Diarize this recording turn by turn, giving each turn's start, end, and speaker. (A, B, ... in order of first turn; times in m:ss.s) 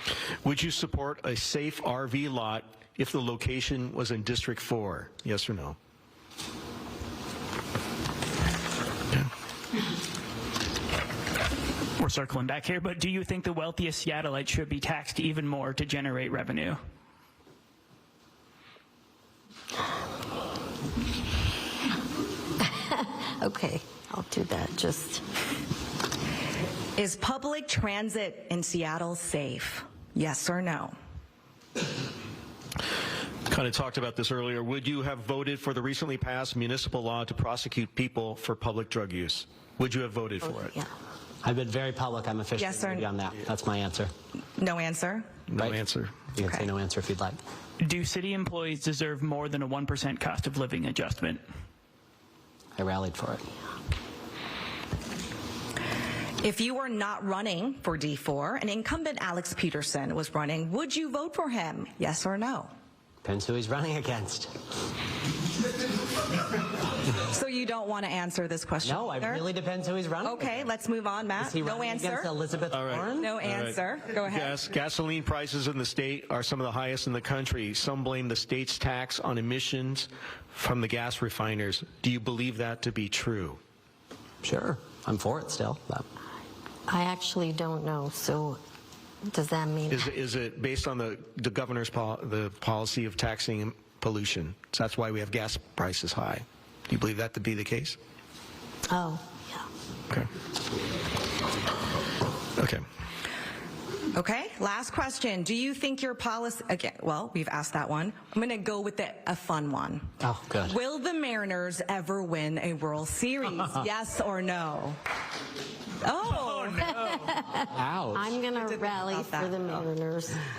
0:00.4-0:05.8 A
0:12.0-0:16.8 B
0:22.6-0:25.2 C
0:27.0-0:31.0 D
0:33.5-0:40.8 A
0:40.4-0:40.9 C
0:41.4-0:44.1 E
0:42.6-0:43.1 D
0:44.6-0:45.3 D
0:45.5-0:46.3 A
0:46.3-0:47.4 E
0:46.4-0:46.7 D
0:47.8-0:51.4 B
0:52.8-0:53.4 E
0:56.4-1:02.7 D
1:03.2-1:04.5 E
1:07.2-1:09.4 D
1:08.8-1:10.6 E
1:10.2-1:12.3 D
1:11.4-1:13.3 E
1:12.7-1:23.6 A
1:13.2-1:14.6 D
1:24.4-1:26.0 E
1:26.9-1:28.6 C
1:29.3-1:30.1 C
1:29.9-1:38.0 A
1:38.9-1:39.6 C
1:42.6-1:42.8 A
1:44.1-1:55.0 D
1:50.2-1:50.8 E
1:56.0-1:57.2 D
1:56.9-2:00.4 C
1:57.7-1:58.4 E
1:58.6-1:59.7 D